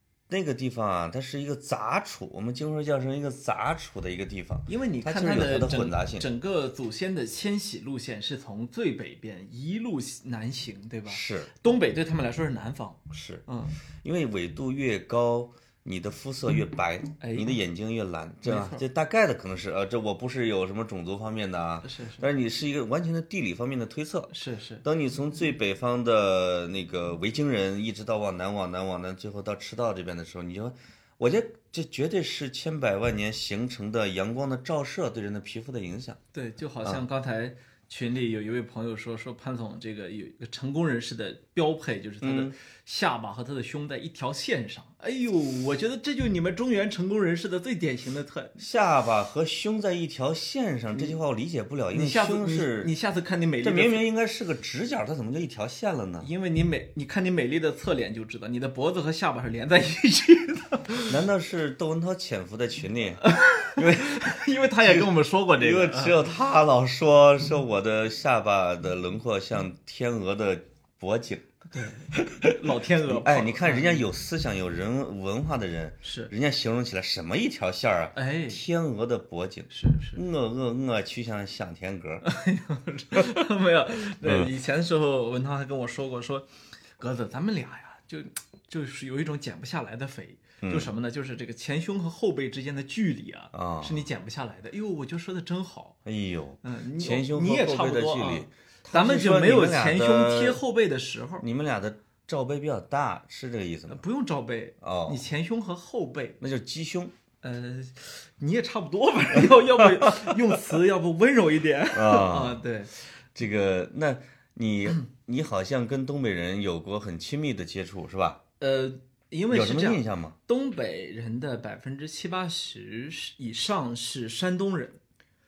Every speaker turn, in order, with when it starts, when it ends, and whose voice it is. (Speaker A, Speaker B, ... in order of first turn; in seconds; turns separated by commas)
Speaker A: 0.3-6.3, Speaker B: 4.7-13.8, Speaker A: 11.1-11.5, Speaker A: 13.1-13.4, Speaker A: 14.0-24.3, Speaker B: 17.2-17.6, Speaker B: 18.4-18.8, Speaker B: 21.8-22.2, Speaker B: 24.3-24.8, Speaker A: 24.8-36.2, Speaker B: 36.3-48.6, Speaker A: 42.2-42.5, Speaker A: 48.6-52.9, Speaker B: 51.9-54.0, Speaker A: 53.6-56.3, Speaker B: 56.2-61.1, Speaker A: 61.1-71.5, Speaker B: 63.2-66.2, Speaker B: 71.7-74.0, Speaker A: 72.1-82.2, Speaker B: 76.0-76.3, Speaker B: 78.1-78.6, Speaker B: 79.7-80.2, Speaker B: 82.2-86.5, Speaker A: 84.2-84.5, Speaker B: 87.0-96.0, Speaker A: 90.6-90.9, Speaker A: 93.5-94.0, Speaker A: 96.0-100.6, Speaker B: 96.6-101.4, Speaker A: 101.4-104.0, Speaker B: 103.9-106.4, Speaker A: 104.8-105.2, Speaker A: 106.4-107.1, Speaker B: 107.4-112.9, Speaker A: 109.8-110.4, Speaker A: 111.9-112.6, Speaker A: 113.3-118.4, Speaker B: 118.6-125.0, Speaker A: 119.5-120.4